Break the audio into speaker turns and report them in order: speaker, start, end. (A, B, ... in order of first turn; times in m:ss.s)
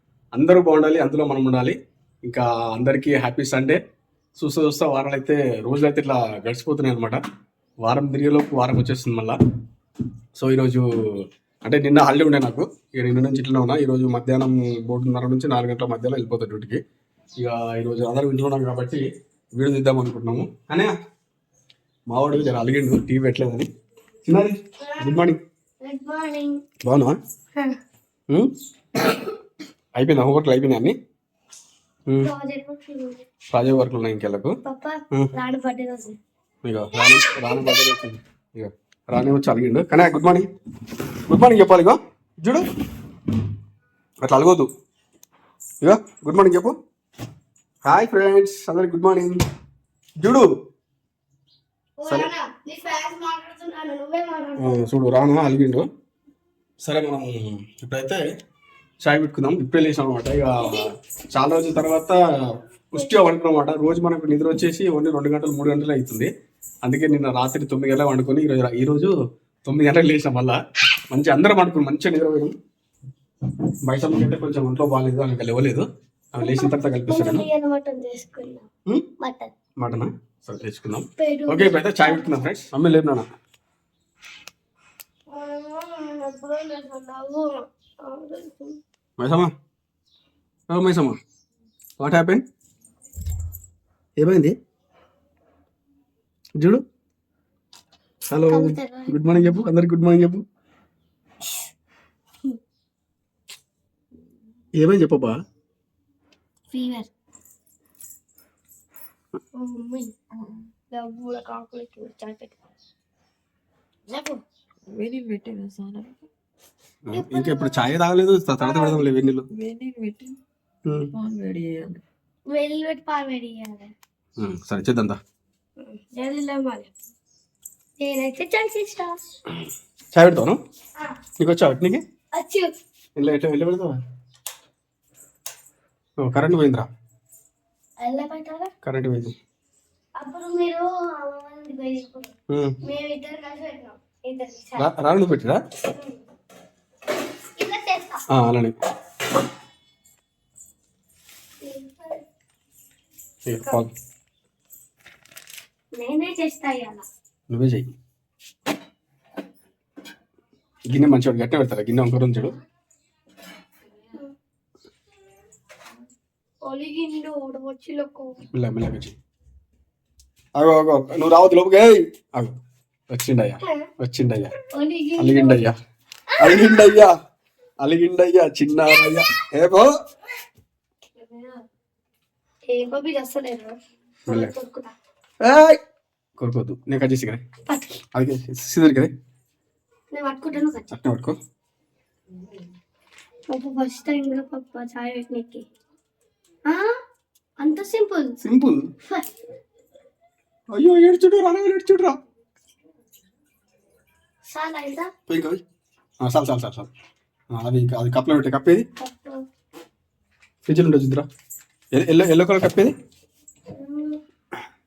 0:00.3-0:03.8 A
0:04.4-0:07.2 A
0:07.8-0:09.4 A
0:10.4-0:10.9 A
0:11.6-0:16.8 A
0:17.4-0:20.9 A
0:22.1-0:23.7 A
0:24.3-0:25.4 A
0:24.8-0:25.2 B
0:25.8-0:26.6 B
0:26.8-0:27.2 A
0:30.0-0:31.0 A
0:32.2-0:33.2 B
0:33.5-0:34.6 A
0:34.6-0:36.2 B
0:36.6-0:40.5 A
0:37.2-0:37.7 B
0:41.3-0:42.7 A
0:44.2-0:44.7 A
0:45.8-0:46.8 A
0:47.8-0:49.4 A
0:50.2-0:50.5 A
0:52.0-0:54.9 B
0:54.6-0:55.9 A
0:56.8-0:58.2 A
0:59.0-1:02.2 A
1:00.6-1:00.9 B
1:02.9-1:06.3 A
1:06.8-1:09.1 A
1:09.6-1:10.6 A
1:11.1-1:12.6 A
1:13.9-1:17.5 A
1:16.4-1:18.7 B
1:19.2-1:19.5 B
1:19.8-1:23.3 A
1:21.2-1:22.5 B
1:25.3-1:28.8 B
1:29.2-1:29.5 A
1:30.7-1:31.2 A
1:32.0-1:32.4 A
1:34.2-1:34.6 A
1:36.6-1:36.8 A
1:38.3-1:40.4 A
1:38.5-1:39.6 B
1:44.8-1:45.4 A
1:46.7-1:47.1 B
1:49.5-1:50.1 B
1:50.3-1:50.7 C
1:50.9-1:52.6 B
1:54.1-1:54.4 B
1:54.9-1:56.3 C
1:57.1-1:59.5 A
1:57.1-1:57.8 B
1:58.6-1:59.0 B
1:59.5-2:00.4 C
2:00.8-2:01.1 A
2:01.1-2:02.0 C
2:02.5-2:03.9 B
2:04.4-2:05.2 A
2:05.8-2:06.9 B
2:08.0-2:09.2 B
2:10.1-2:10.6 A
2:11.4-2:12.0 A
2:12.3-2:12.7 B
2:13.2-2:14.0 A
2:16.2-2:16.9 A
2:18.0-2:18.7 B
2:18.8-2:19.4 A
2:20.2-2:22.3 B
2:22.5-2:22.8 A
2:22.8-2:24.9 B
2:24.8-2:25.6 A
2:27.6-2:28.2 B
2:28.3-2:28.8 A
2:31.6-2:32.2 B
2:33.5-2:33.9 A
2:36.0-2:37.0 B
2:37.5-2:37.9 A
2:40.9-2:42.6 A
2:46.6-2:48.4 B
2:48.5-2:49.2 A
2:50.6-2:52.5 A
2:53.1-2:54.6 A
2:54.7-2:55.6 B
2:55.2-2:55.8 A
2:56.3-2:57.0 B
2:56.4-2:57.1 A
2:57.8-2:59.9 A
3:02.7-3:04.9 B
3:04.3-3:04.5 A
3:05.4-3:05.8 A
3:06.4-3:07.4 A
3:08.2-3:09.1 A
3:10.1-3:10.9 B
3:10.9-3:11.4 A
3:12.3-3:12.7 C
3:13.5-3:15.7 B
3:17.6-3:18.4 B
3:18.4-3:18.9 A
3:20.7-3:22.2 A
3:24.5-3:25.1 B
3:25.3-3:25.6 A
3:26.2-3:26.9 A
3:27.5-3:28.8 A
3:29.0-3:29.4 B
3:30.7-3:31.3 A
3:31.9-3:32.9 A
3:33.7-3:34.2 B